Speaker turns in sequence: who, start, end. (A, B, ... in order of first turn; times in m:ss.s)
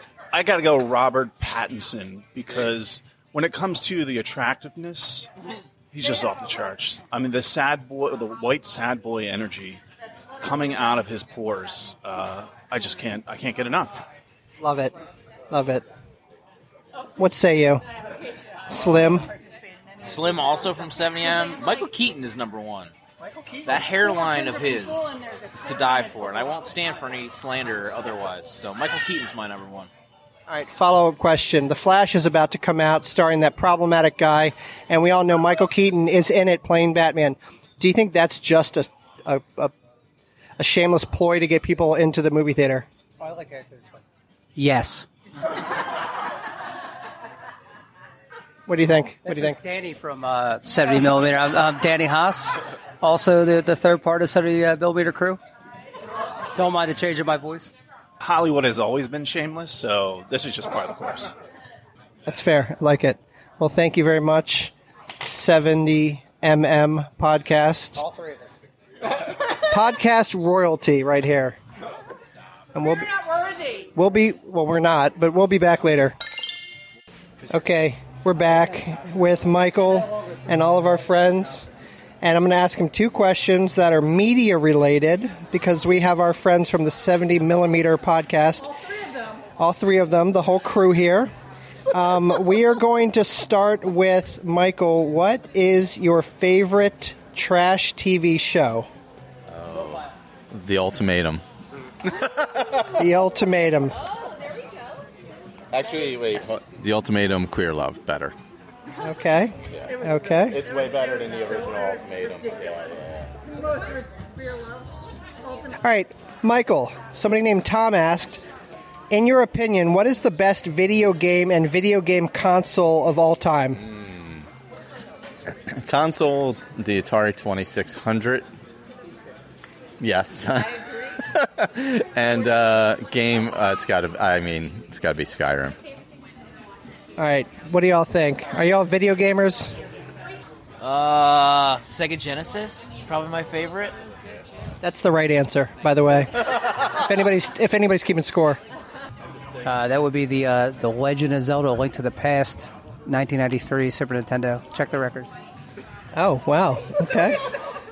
0:00.3-0:05.3 A
0:05.9-0:09.8 A
0:10.4-0:14.0 A
0:14.6-0:14.9 B
0:15.5-0:15.8 B
0:17.2-0:17.8 B
0:18.7-0:19.3 B
0:20.0-0:22.9 C
0:23.2-0:23.6 B
0:23.6-0:29.9 C
0:30.5-0:39.7 B
0:40.6-0:42.8 B
0:43.2-0:44.0 D
0:44.6-0:45.1 D
0:48.7-0:49.6 B
0:49.2-0:55.4 D
0:56.6-0:57.7 D
0:58.2-1:01.3 A
1:02.2-1:08.0 B
1:09.7-1:11.6 B
1:12.7-1:13.1 B
1:13.9-1:16.2 B
1:17.5-1:21.7 B
1:22.2-1:28.7 B
1:29.6-1:31.3 B
1:31.9-1:38.9 B
1:39.5-1:41.4 E
1:42.9-1:44.0 B
1:45.7-1:48.3 E
1:49.0-1:50.6 B
1:50.5-1:53.3 E
1:55.8-1:58.4 B
1:59.1-2:03.8 B
2:03.9-2:04.4 E
2:05.7-2:08.4 E
2:10.0-2:15.8 E
2:17.2-2:19.8 B
2:20.8-2:24.0 C
2:24.8-2:28.6 B
2:29.6-2:35.3 D
2:36.1-2:37.4 B